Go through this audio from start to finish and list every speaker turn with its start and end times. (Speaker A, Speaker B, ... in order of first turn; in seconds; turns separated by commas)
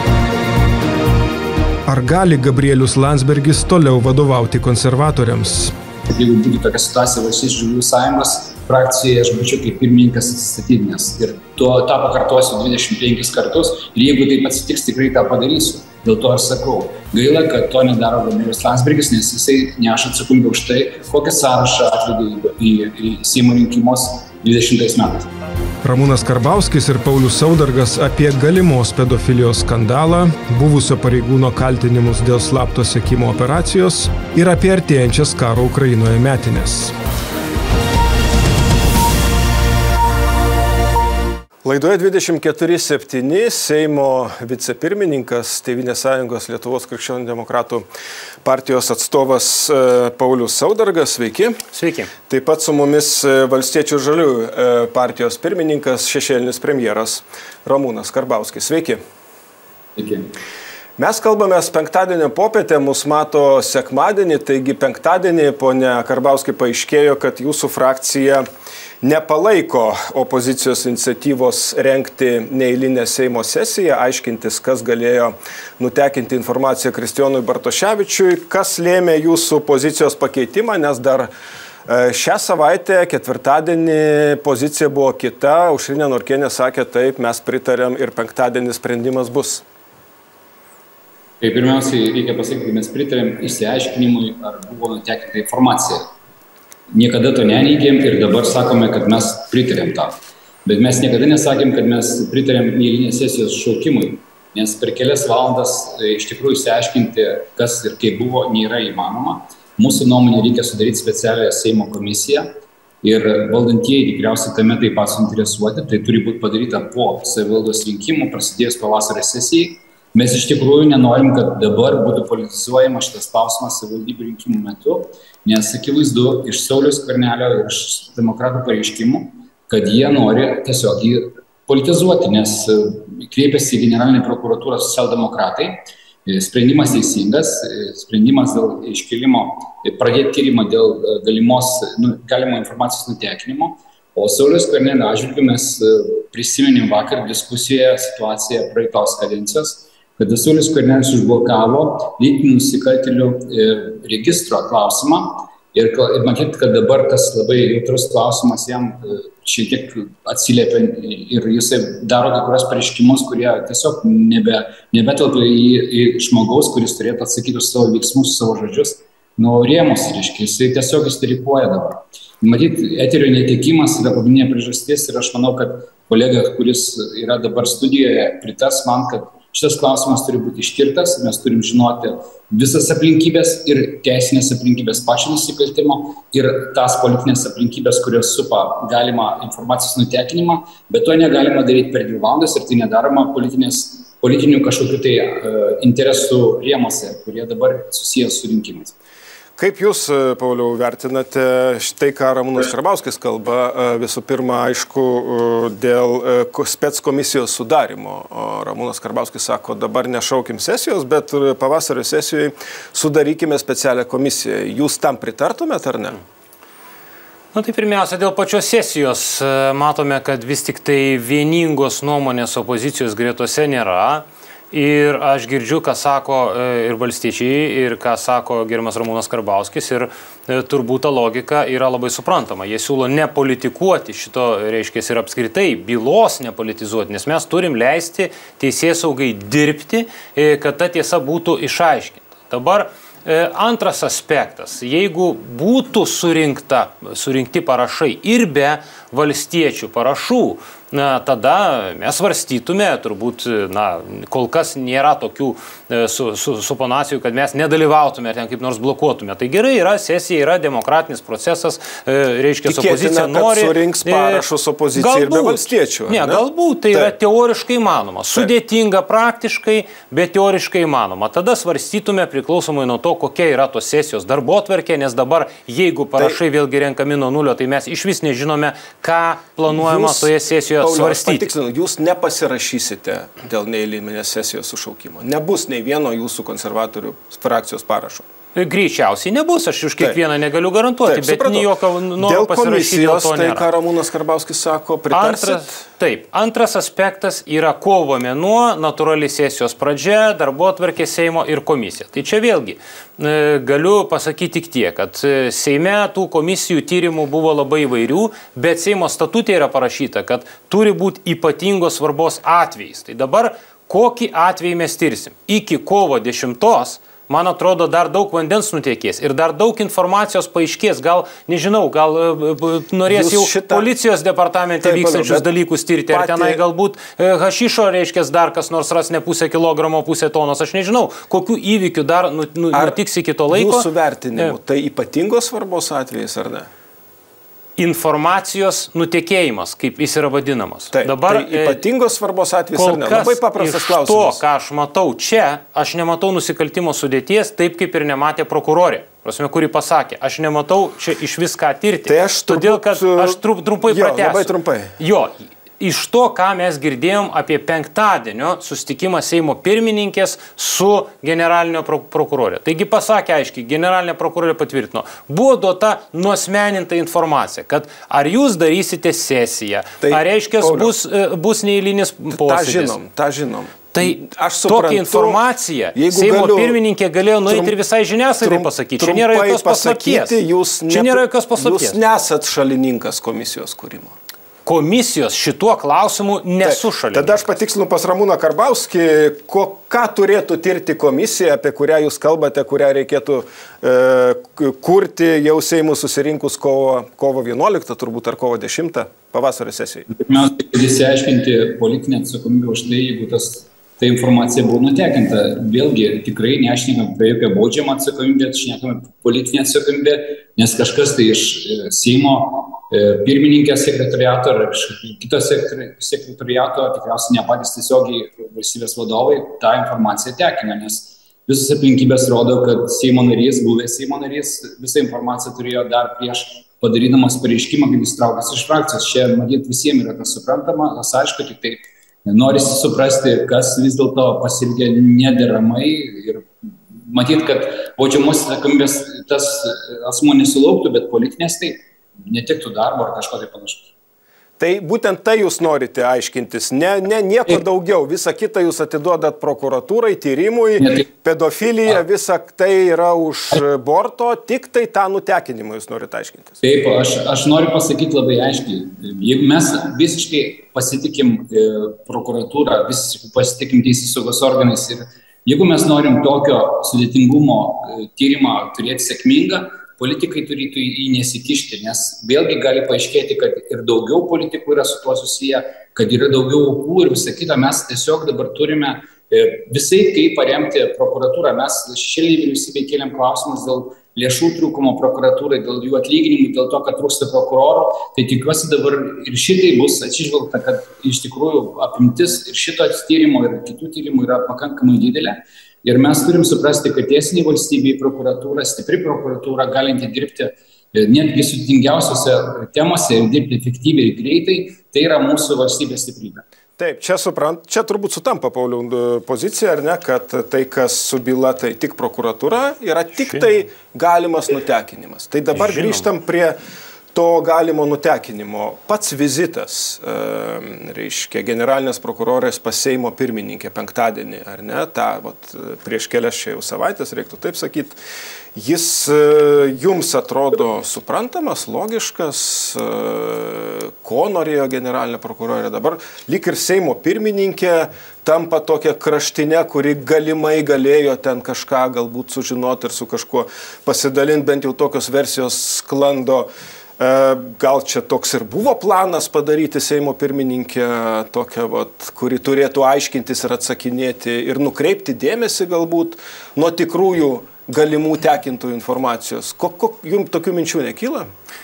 Speaker A: 1.9-5.7, Speaker B: 6.1-25.3, Speaker A: 25.8-37.0, Speaker A: 41.6-47.9, Speaker A: 48.4-51.6, Speaker C: 51.7-52.1, Speaker A: 52.3-59.0, Speaker B: 60.0-60.3, Speaker A: 61.0-68.4, Speaker A: 69.0-81.3, Speaker A: 81.9-89.6, Speaker B: 91.4-96.1, Speaker B: 96.9-112.5, Speaker B: 113.0-135.7, Speaker B: 136.3-198.9, Speaker A: 199.6-216.2, Speaker C: 217.5-264.4, Speaker A: 262.6-267.1, Speaker C: 265.0-281.5, Speaker A: 279.7-288.2, Speaker C: 288.6-293.6, Speaker A: 291.1-295.8, Speaker C: 295.1-334.6, Speaker A: 323.1-323.9, Speaker A: 324.8-325.5, Speaker A: 326.1-326.6, Speaker A: 332.7-333.0, Speaker A: 333.5-336.7, Speaker C: 337.8-341.8, Speaker A: 340.9-344.4, Speaker C: 342.8-373.0, Speaker A: 352.1-354.9, Speaker A: 370.0-370.9, Speaker A: 372.3-375.4, Speaker C: 373.9-380.4, Speaker A: 375.9-376.8, Speaker A: 377.5-377.8, Speaker A: 378.4-384.1, Speaker C: 380.9-382.0, Speaker C: 384.7-387.4, Speaker A: 386.6-400.1, Speaker B: 400.1-436.5, Speaker B: 437.1-443.9, Speaker A: 444.6-456.6, Speaker B: 456.6-506.4, Speaker A: 506.8-516.6, Speaker C: 515.5-516.1, Speaker A: 517.1-528.0, Speaker A: 528.5-546.5, Speaker A: 547.0-561.3